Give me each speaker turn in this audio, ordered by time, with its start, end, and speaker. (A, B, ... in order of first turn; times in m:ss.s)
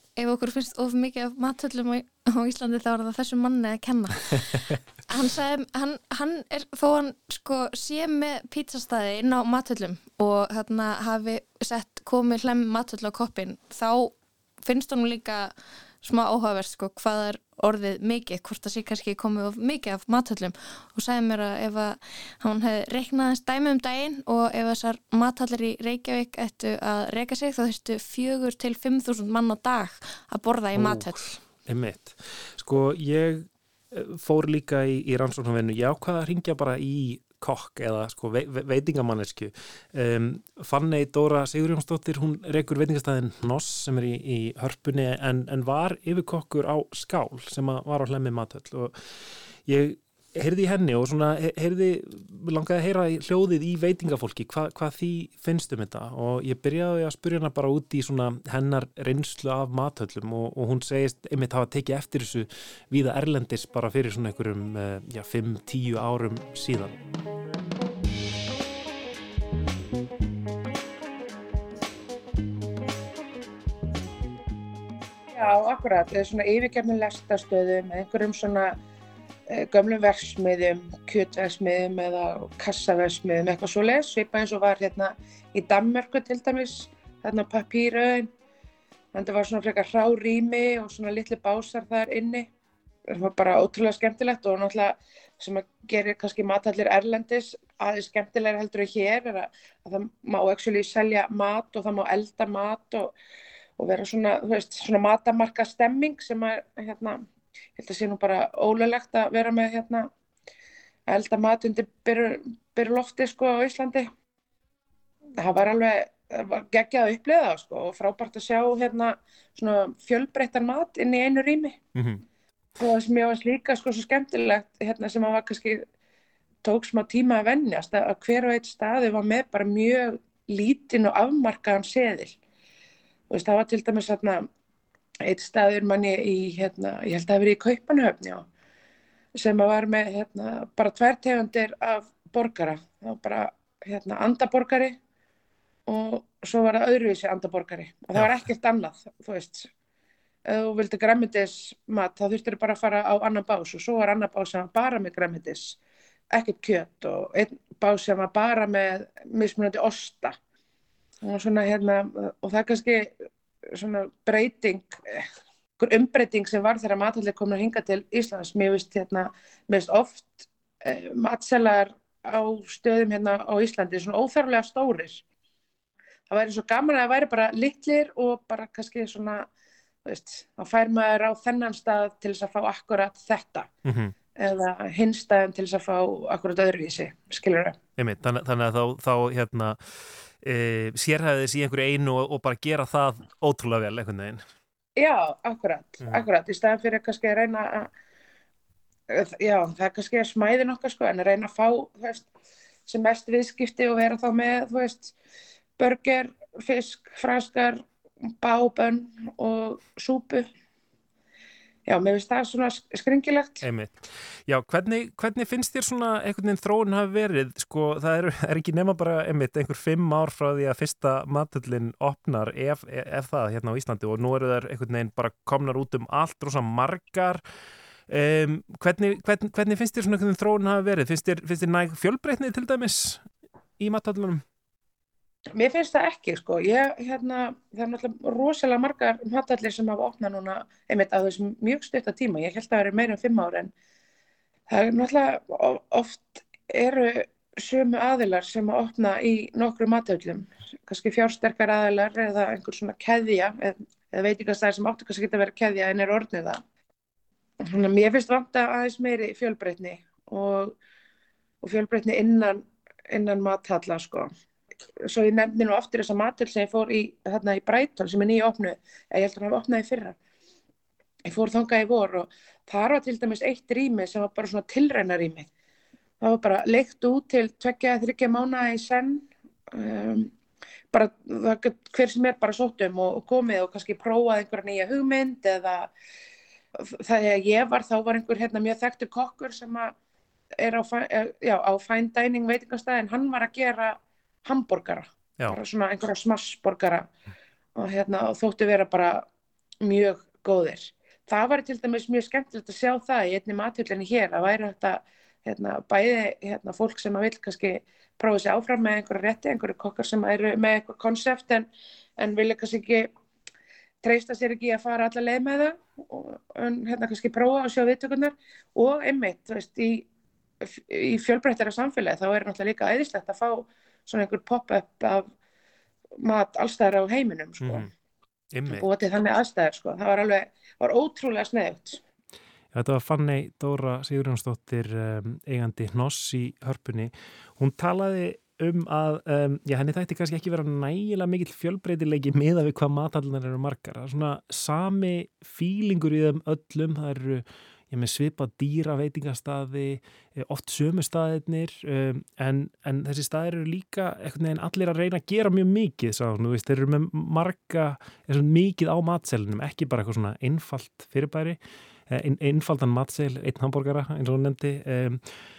0:00.2-0:31.4 A
0:30.7-0:31.1 B
0:31.7-0:49.0 B
0:49.6-1:07.0 B
1:15.3-1:18.8 C
1:19.5-1:28.3 C
1:29.1-1:32.5 C
1:33.1-1:43.1 C
1:43.8-1:47.2 C
1:47.8-1:50.1 C
1:51.1-1:54.1 C
1:55.4-2:01.8 C
2:01.9-2:02.2 B
2:02.8-2:05.8 C
2:06.6-2:12.4 C
2:13.3-2:14.4 C
2:15.2-2:18.4 C
2:19.3-2:25.0 C
2:25.9-2:29.7 C
2:30.4-2:35.8 C
2:36.3-2:40.4 C
2:41.2-2:43.1 C
2:43.7-2:45.2 C
2:45.8-2:55.2 C
2:56.3-2:59.5 C
3:00.0-3:03.7 C
3:03.8-3:04.1 B
3:04.4-3:07.8 C
3:08.0-3:14.4 B
3:15.0-3:17.9 C
3:19.1-3:22.3 C
3:22.9-3:25.1 C
3:25.8-3:27.8 C
3:28.4-3:30.4 C
3:31.9-3:33.6 C
3:33.6-3:47.4 B
3:48.1-3:53.2 B
3:53.8-3:54.4 B
3:55.5-4:03.7 C
4:04.7-4:16.6 C
4:17.6-4:20.8 C
4:21.6-4:24.3 C
4:25.0-4:30.2 C
4:31.2-4:35.5 C
4:36.2-4:40.3 C
4:40.9-4:45.9 C
4:46.8-4:49.9 C
4:50.6-4:57.1 C
4:57.8-4:59.2 C
4:59.8-5:13.1 C
5:14.0-5:20.0 C
5:20.6-5:25.3 C
5:26.2-5:27.9 C
5:27.6-5:27.9 B
5:28.5-5:28.8 B
5:28.7-5:32.0 C
5:32.7-6:05.2 B